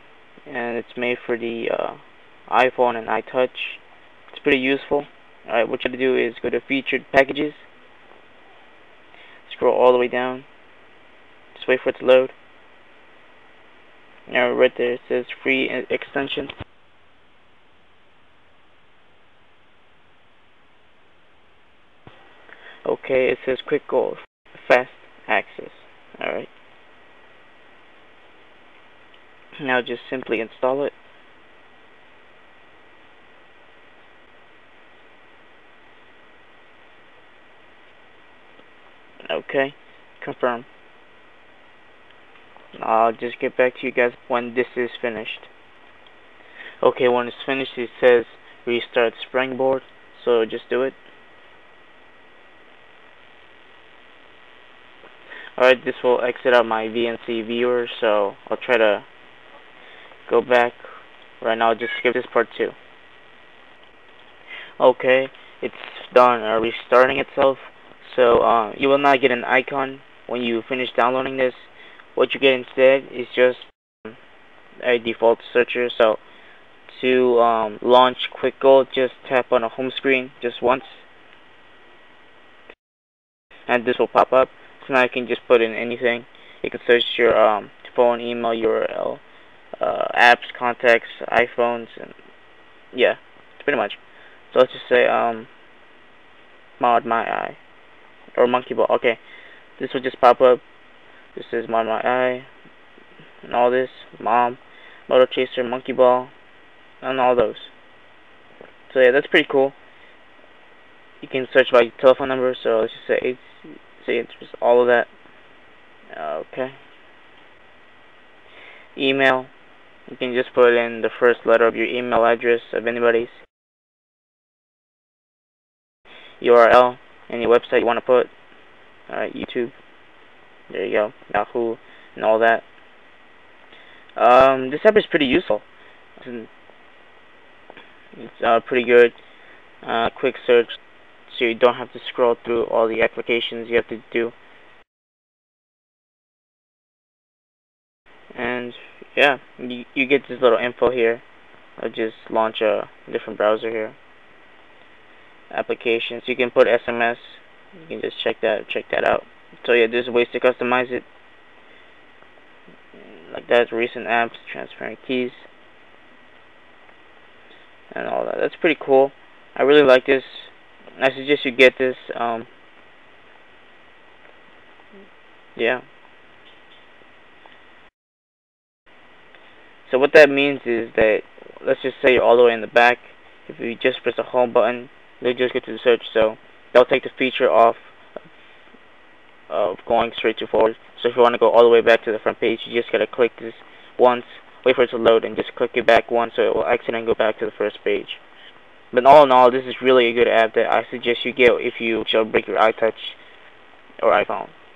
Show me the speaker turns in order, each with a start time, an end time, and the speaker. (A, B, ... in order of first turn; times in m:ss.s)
0:00.5-0:02.0 A
0:02.5-0:03.8 A
0:04.3-0:07.6 A
0:09.5-0:10.5 A
0:11.5-0:12.4 A
0:14.3-0:16.5 A
0:22.8-0:26.5 A
0:29.6-0:30.9 A
0:39.3-0:40.7 A
0:42.8-0:45.5 A
0:46.8-0:51.0 A
0:55.6-0:59.1 A
1:00.3-1:00.8 A
1:01.4-1:02.8 A
1:04.8-1:14.2 A
1:14.8-1:16.2 A
1:16.9-1:21.0 A
1:23.7-1:29.2 A
1:29.8-1:32.1 A
1:32.9-1:34.0 A
1:34.5-1:35.5 A
1:36.8-1:37.6 A
1:38.4-1:39.2 A
1:39.8-1:40.6 A
1:41.4-1:42.5 A
1:43.4-1:46.3 A
1:47.0-1:47.7 A
1:48.9-1:49.8 A
1:51.2-1:55.1 A
1:56.1-1:56.8 A
1:59.0-1:59.5 A
2:00.1-2:03.4 A
2:06.4-2:08.3 A
2:09.1-2:09.7 A
2:10.7-2:12.6 A
2:14.2-2:15.6 A
2:16.2-2:16.5 A
2:18.2-2:19.2 A
2:19.8-2:24.4 A
2:28.3-2:31.2 A
2:31.8-2:34.0 A
2:35.5-2:41.1 A
2:43.3-2:45.5 A
2:47.9-2:52.5 A
2:55.6-2:55.8 A
2:59.9-3:07.9 A
3:09.5-3:18.2 A
3:18.9-3:23.2 A
3:24.0-3:24.5 A